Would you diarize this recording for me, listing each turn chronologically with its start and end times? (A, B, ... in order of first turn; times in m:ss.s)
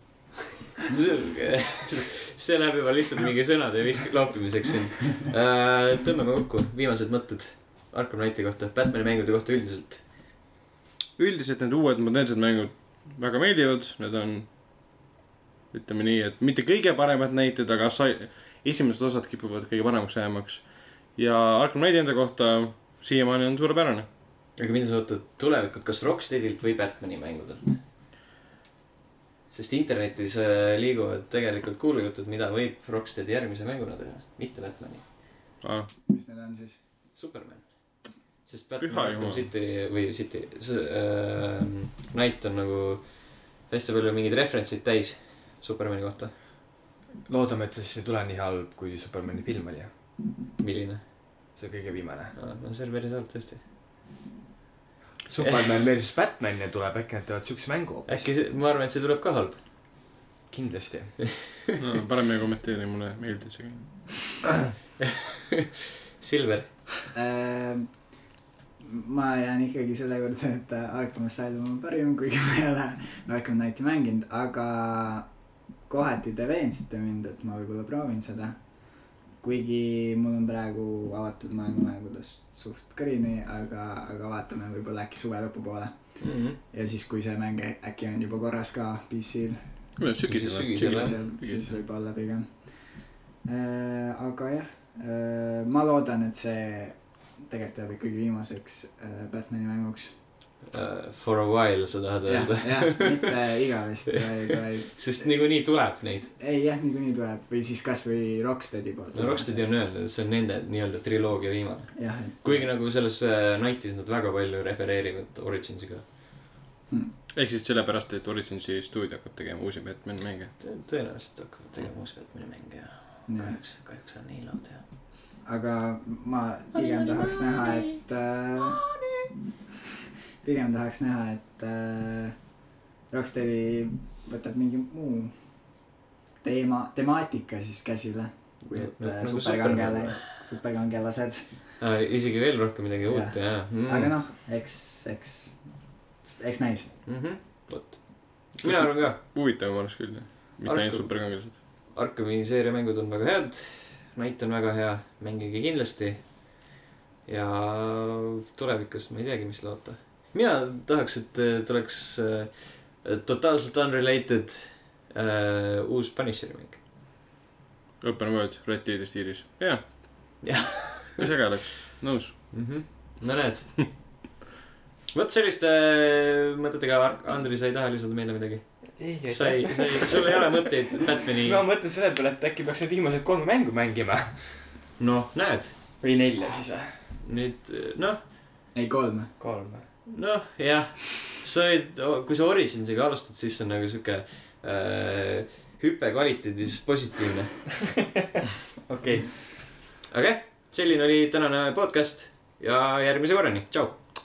0:00.9-0:10.0 A
0:11.2-0:14.5 B
0:15.7-0:24.1 B
0:24.6-0:27.8 A
0:29.5-0:35.1 A
0:35.6-0:35.9 B
0:36.1-0:36.8 C
0:37.2-0:46.3 A
0:38.8-0:39.5 B
0:47.3-0:49.9 D
0:50.6-0:51.0 A
0:51.6-0:52.4 D
0:52.4-0:53.6 A
0:55.3-0:58.3 D
0:55.4-0:55.7 A
0:58.1-0:59.6 A
1:00.5-1:01.2 D
1:01.8-1:04.5 B
1:05.0-1:05.6 A
1:06.2-1:06.7 A
1:07.1-1:08.1 C
1:08.8-1:29.7 C
1:26.2-1:26.6 A
1:30.0-1:31.8 B
1:30.3-1:31.2 A
1:30.8-1:40.2 C
1:40.7-1:43.6 A
1:42.3-1:45.8 C
1:44.9-1:46.3 A
1:46.4-1:49.8 C
1:49.1-1:56.1 A
1:52.0-1:52.7 C
1:57.3-2:00.6 B
2:00.6-2:04.8 A
2:03.3-2:03.6 C
2:05.4-2:08.9 C
2:06.7-2:08.0 A
2:08.7-2:09.3 A
2:10.4-2:12.4 C
2:13.1-2:15.3 C
2:16.4-2:21.6 C
2:18.6-2:20.2 A
2:21.8-2:24.2 A
2:23.1-2:25.7 C
2:26.2-2:27.0 C
2:27.0-2:29.2 A
2:28.6-2:31.6 B
2:30.6-2:36.6 A
2:37.3-2:46.8 A
2:48.0-2:50.4 B
2:50.4-2:51.3 A
2:51.2-2:52.4 B
2:52.5-2:54.1 A
2:55.1-3:01.6 A
2:59.0-3:04.6 D
3:05.0-3:05.8 A
3:06.0-3:07.0 D
3:07.2-3:08.2 A
3:08.7-3:09.4 C
3:09.4-3:09.9 D
3:10.1-3:17.8 A
3:18.8-3:19.4 D
3:20.1-3:24.0 A